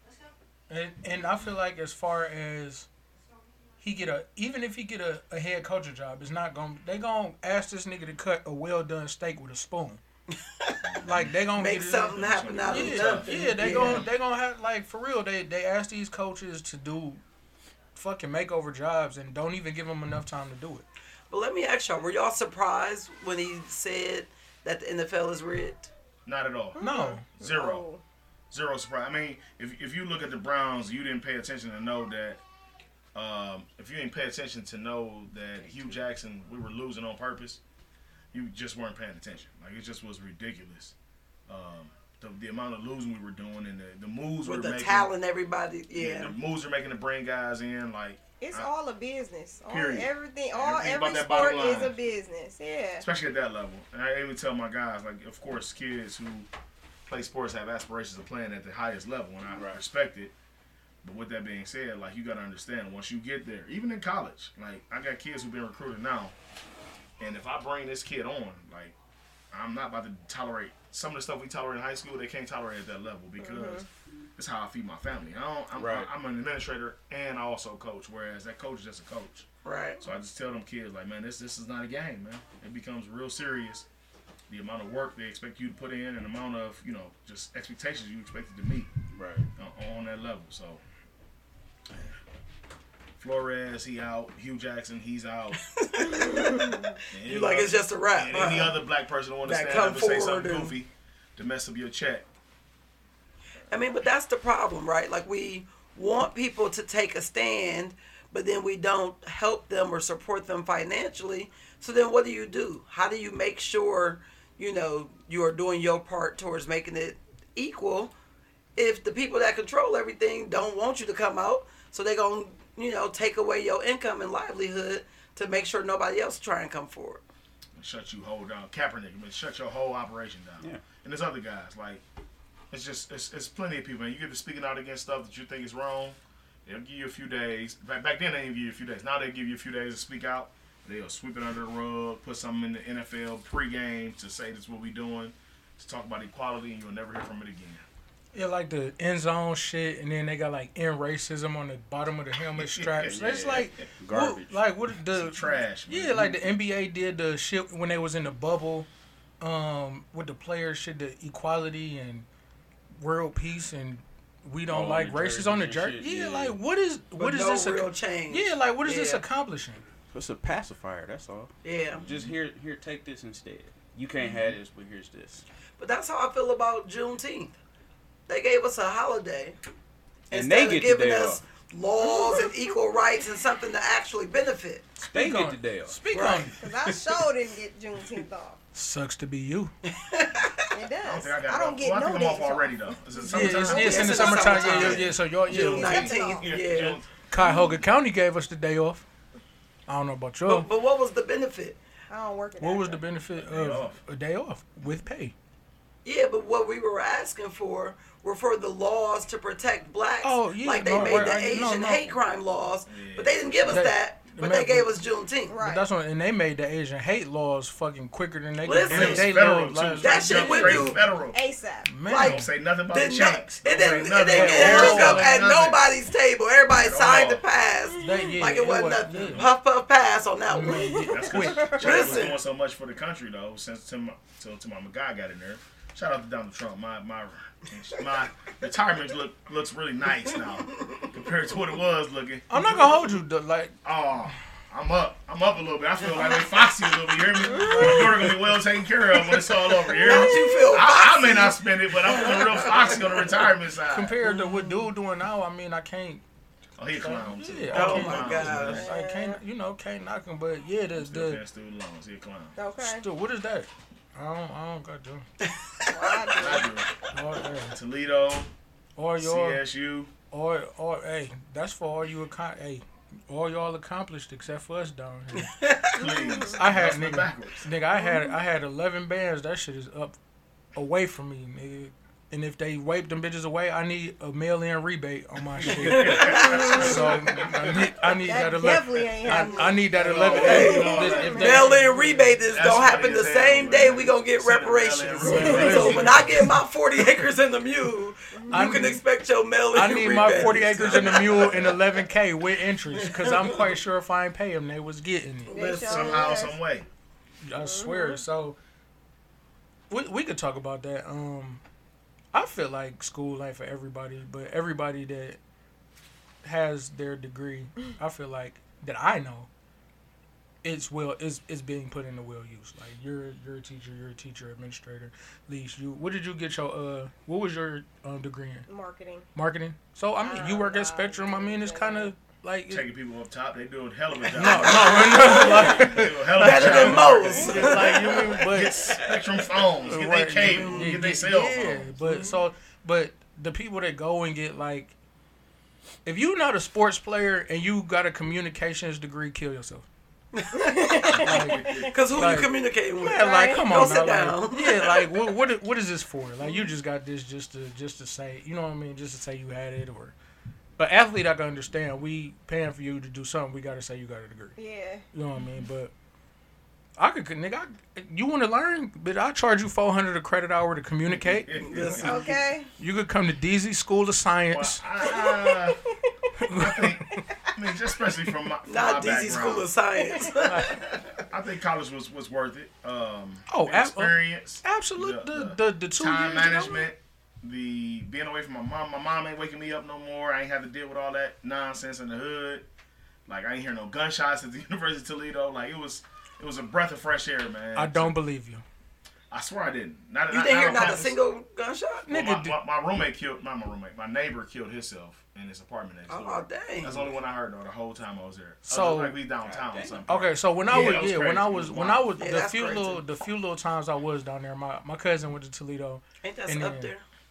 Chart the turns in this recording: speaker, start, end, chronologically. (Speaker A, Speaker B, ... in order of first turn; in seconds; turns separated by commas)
Speaker A: 0.7-2.9, Speaker A: 3.8-10.0, Speaker B: 10.8-11.3, Speaker A: 11.0-17.2, Speaker C: 11.6-14.1, Speaker B: 12.1-14.1, Speaker A: 18.0-20.9, Speaker C: 21.3-25.9, Speaker B: 26.3-27.9, Speaker D: 26.8-28.0, Speaker A: 26.8-27.2, Speaker B: 28.5-32.4, Speaker B: 33.1-37.6, Speaker B: 38.3-40.9, Speaker B: 41.5-45.1, Speaker C: 44.4-46.3, Speaker B: 45.9-48.7, Speaker D: 48.4-53.1, Speaker B: 49.7-52.0, Speaker B: 53.0-56.5, Speaker B: 57.1-60.3, Speaker B: 61.0-66.3, Speaker B: 67.2-69.0, Speaker B: 69.5-79.5, Speaker D: 73.4-73.9, Speaker E: 75.8-76.1, Speaker C: 79.6-80.0, Speaker B: 80.0-83.9, Speaker B: 84.5-88.9, Speaker E: 89.2-89.5, Speaker B: 89.6-90.8, Speaker B: 93.2-95.6, Speaker C: 95.6-98.8, Speaker D: 96.1-97.0, Speaker B: 97.1-102.3, Speaker C: 99.5-100.8, Speaker C: 103.7-118.1, Speaker C: 118.8-127.2, Speaker B: 127.8-132.0, Speaker E: 130.6-130.9, Speaker B: 132.7-147.8, Speaker A: 148.3-158.9, Speaker B: 152.5-153.9, Speaker E: 153.1-154.7, Speaker B: 155.1-156.4, Speaker A: 159.4-162.3, Speaker A: 163.0-169.8, Speaker E: 164.7-166.6, Speaker C: 167.2-169.2, Speaker E: 170.1-175.4, Speaker C: 171.6-172.0, Speaker B: 174.2-174.5, Speaker C: 175.8-177.6, Speaker C: 178.3-179.6, Speaker E: 180.3-181.4, Speaker C: 180.3-184.9, Speaker D: 182.1-182.4, Speaker A: 185.0-187.1, Speaker E: 185.1-186.0, Speaker C: 186.1-186.5, Speaker D: 186.6-188.6, Speaker A: 188.7-189.7, Speaker C: 189.9-190.7, Speaker D: 190.7-194.6, Speaker B: 191.0-197.2, Speaker A: 193.3-196.0, Speaker C: 193.4-197.0, Speaker D: 195.5-196.5, Speaker A: 197.3-199.1, Speaker D: 197.4-197.7, Speaker A: 199.9-200.7, Speaker C: 200.5-201.8, Speaker D: 202.1-203.1, Speaker A: 202.6-205.3, Speaker B: 203.4-204.0, Speaker C: 206.1-215.6, Speaker A: 210.2-212.2, Speaker B: 210.9-211.6, Speaker B: 212.9-213.9, Speaker A: 213.7-214.9, Speaker D: 215.5-215.9, Speaker A: 215.6-221.0, Speaker C: 218.6-219.3, Speaker B: 218.9-221.4, Speaker C: 220.0-221.0, Speaker D: 221.3-221.9, Speaker A: 221.9-222.5, Speaker C: 222.1-232.4, Speaker B: 222.1-225.9, Speaker A: 224.3-225.4, Speaker B: 226.7-227.4, Speaker A: 228.0-229.5, Speaker D: 228.0-228.3, Speaker B: 229.2-229.5, Speaker A: 230.5-231.9, Speaker D: 230.6-232.3, Speaker B: 231.0-243.0, Speaker A: 242.5-243.8, Speaker B: 243.8-254.2, Speaker D: 247.5-248.1, Speaker A: 247.6-248.1, Speaker C: 249.8-253.3, Speaker A: 253.9-256.2, Speaker C: 254.2-254.9, Speaker B: 256.8-258.9, Speaker A: 256.9-261.4, Speaker C: 257.7-258.9, Speaker D: 258.6-259.4, Speaker B: 261.0-262.6, Speaker D: 262.6-263.1, Speaker A: 262.8-265.2, Speaker C: 265.4-266.6, Speaker D: 265.9-266.7, Speaker B: 266.4-266.9, Speaker A: 267.1-267.8, Speaker B: 267.7-268.5, Speaker A: 269.0-269.6, Speaker B: 269.2-270.1, Speaker A: 270.3-275.6, Speaker C: 275.4-276.2, Speaker B: 275.9-277.7, Speaker D: 276.1-276.6, Speaker A: 276.6-280.2, Speaker A: 280.8-292.4, Speaker E: 285.6-287.8, Speaker B: 285.9-287.2, Speaker C: 286.0-286.8, Speaker D: 286.4-287.2, Speaker D: 288.2-289.8, Speaker C: 289.2-301.6, Speaker B: 289.9-291.8, Speaker D: 290.3-291.7, Speaker B: 292.5-296.5, Speaker A: 295.2-296.5, Speaker D: 295.5-296.0, Speaker D: 298.3-298.8, Speaker A: 298.5-299.0, Speaker A: 299.7-305.6, Speaker B: 300.1-301.8, Speaker C: 303.1-303.6, Speaker D: 305.5-306.6, Speaker C: 305.5-306.3, Speaker B: 305.9-306.9, Speaker A: 307.4-308.6, Speaker D: 307.6-308.2, Speaker A: 309.9-311.6, Speaker A: 312.3-315.4, Speaker A: 316.4-319.5, Speaker A: 320.6-328.7, Speaker D: 328.7-329.3, Speaker A: 329.3-332.9, Speaker D: 330.2-332.1, Speaker B: 332.7-341.9, Speaker A: 334.3-338.9, Speaker C: 334.4-339.7, Speaker A: 339.9-344.9, Speaker C: 340.4-341.1, Speaker A: 346.1-349.9, Speaker C: 350.3-351.2, Speaker D: 350.5-351.9, Speaker B: 351.1-351.9, Speaker A: 351.2-360.1, Speaker C: 351.9-355.0, Speaker D: 353.0-354.1, Speaker A: 360.8-364.6, Speaker D: 364.6-365.0, Speaker A: 365.1-365.9, Speaker A: 367.0-374.8, Speaker B: 371.1-372.3, Speaker C: 371.6-372.2, Speaker D: 372.0-372.7, Speaker B: 374.5-375.8, Speaker D: 375.0-375.8, Speaker A: 376.4-377.2, Speaker B: 376.5-379.7, Speaker C: 378.7-381.2, Speaker A: 380.5-380.8, Speaker B: 381.3-392.7, Speaker A: 383.5-386.8, Speaker B: 393.3-398.1, Speaker A: 397.8-398.6, Speaker B: 399.3-401.2, Speaker C: 400.3-402.1, Speaker A: 402.1-402.6, Speaker B: 402.1-412.1, Speaker C: 406.1-407.1, Speaker A: 408.7-409.2, Speaker E: 409.5-410.2, Speaker A: 410.1-416.9, Speaker C: 412.2-413.0, Speaker C: 416.2-417.0